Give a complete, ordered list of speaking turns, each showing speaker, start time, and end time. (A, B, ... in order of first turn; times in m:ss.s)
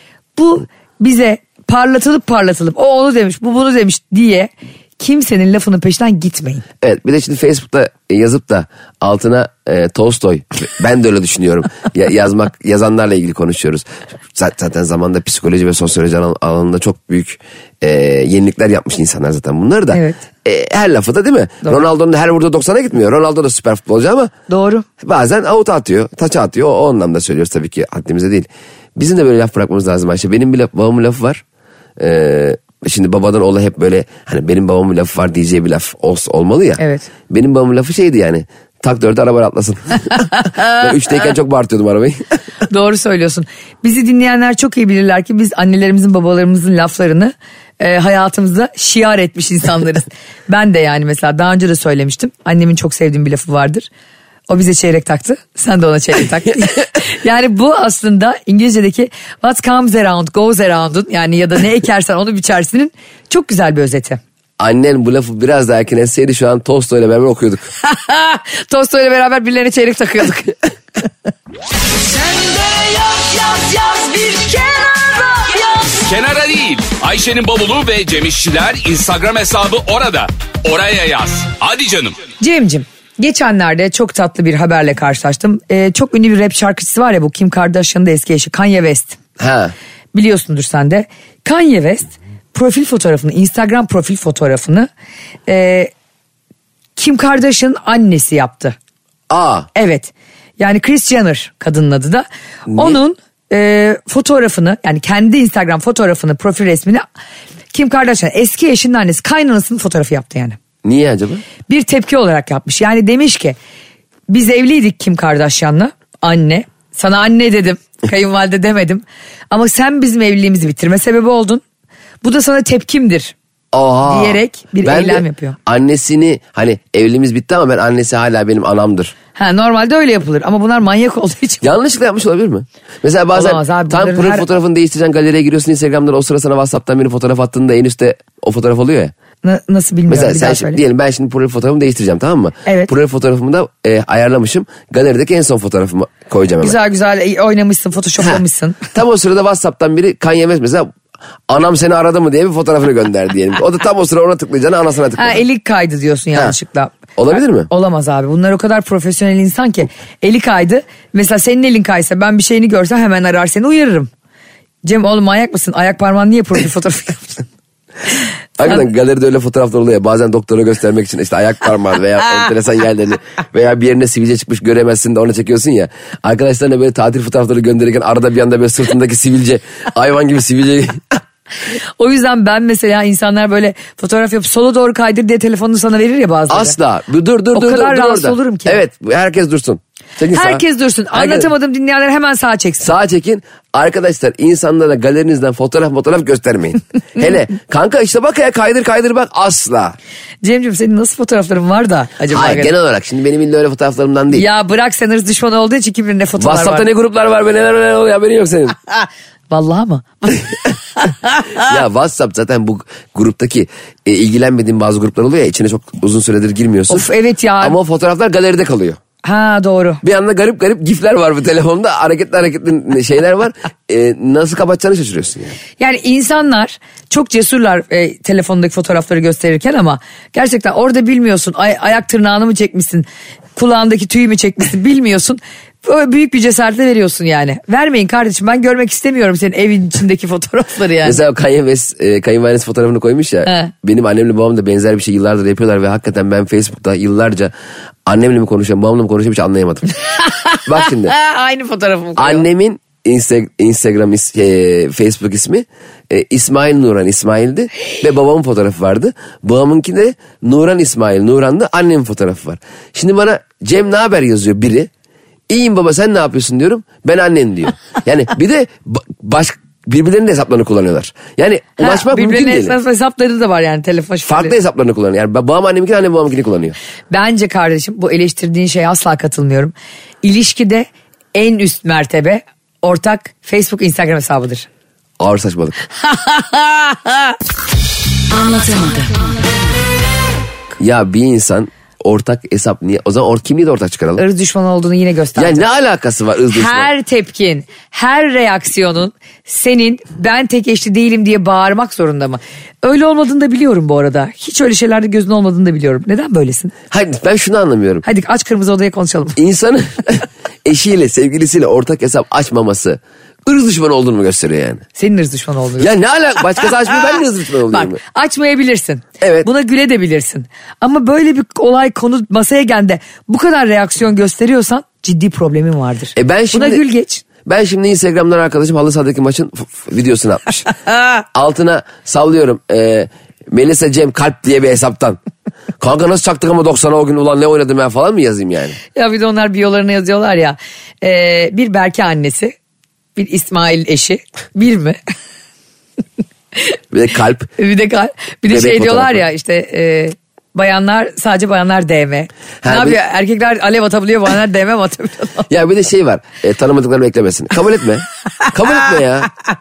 0:00.4-0:06.6 A
0:06.8-0:24.3 B
0:19.9-0:20.2 A
0:24.5-0:24.8 A
0:25.0-0:31.4 B
0:32.0-0:42.2 B
0:36.8-0:37.1 A
0:40.4-0:40.8 A
0:42.7-0:53.9 A
0:54.5-1:04.2 A
1:04.6-1:07.7 B
1:07.8-1:10.6 A
1:12.3-1:13.5 C
1:13.5-1:16.0 A
1:15.9-1:22.2 C
1:22.4-1:29.2 A
1:29.4-1:29.7 B
1:30.1-1:34.9 A
1:35.5-1:35.9 A
1:37.0-1:38.8 A
1:39.3-1:39.7 B
1:39.7-1:47.0 A
1:42.7-1:43.0 B
1:47.7-1:50.6 A
1:50.8-1:51.4 B
1:51.7-1:53.6 A
1:54.3-2:01.6 A
2:02.2-2:03.3 A
2:03.7-2:09.1 B
2:04.0-2:05.6 A
2:09.4-2:11.7 A
2:11.6-2:19.1 B
2:13.3-2:14.4 A
2:19.4-2:20.8 A
2:20.1-2:26.8 B
2:22.6-2:22.9 A
2:26.6-2:28.8 A
2:28.9-2:30.9 B
2:31.5-2:35.4 B
2:35.2-2:37.0 A
2:37.2-2:37.7 B
2:37.7-2:44.1 A
2:44.8-2:47.4 A
2:48.6-3:01.2 B
3:02.0-3:06.8 A
3:06.5-3:11.5 B
3:07.5-3:08.8 A
3:10.3-3:12.9 A
3:12.8-3:20.0 B
3:20.4-3:22.7 A
3:22.3-3:24.4 B
3:24.3-3:26.8 A
3:26.4-3:28.8 B
3:29.5-3:30.4 A
3:31.6-3:37.1 B
3:36.9-3:37.8 A
3:37.6-3:39.0 B
3:39.2-3:40.0 A
3:40.0-3:45.6 B
3:45.8-4:01.2 A
4:01.0-4:07.5 B
4:03.4-4:03.7 A
4:08.0-4:09.9 B
4:10.2-4:12.4 A
4:10.6-4:11.1 B
4:12.2-4:24.9 B
4:25.5-4:32.8 B
4:31.8-4:34.5 A
4:34.2-4:36.8 B
4:37.1-4:44.7 A
4:45.2-4:45.8 B
4:46.1-4:47.2 A
4:48.3-4:49.3 A
4:50.8-4:54.2 B
4:54.2-4:55.7 A
4:55.4-4:56.9 B
4:56.5-5:06.7 A
5:06.9-5:08.0 B
5:08.0-5:09.4 A
5:09.4-5:14.8 B
5:15.0-5:15.9 A
5:15.8-5:18.0 B
5:17.7-5:27.2 A
5:19.2-5:19.5 B
5:26.2-5:26.8 B
5:27.4-5:30.7 B
5:31.3-5:35.2 B
5:35.8-5:38.8 B
5:38.9-5:42.6 A
5:43.2-5:45.0 A
5:46.9-5:47.5 B
5:47.6-5:55.5 A
5:48.5-5:49.2 B
5:52.6-5:53.0 B
5:55.5-5:59.3 B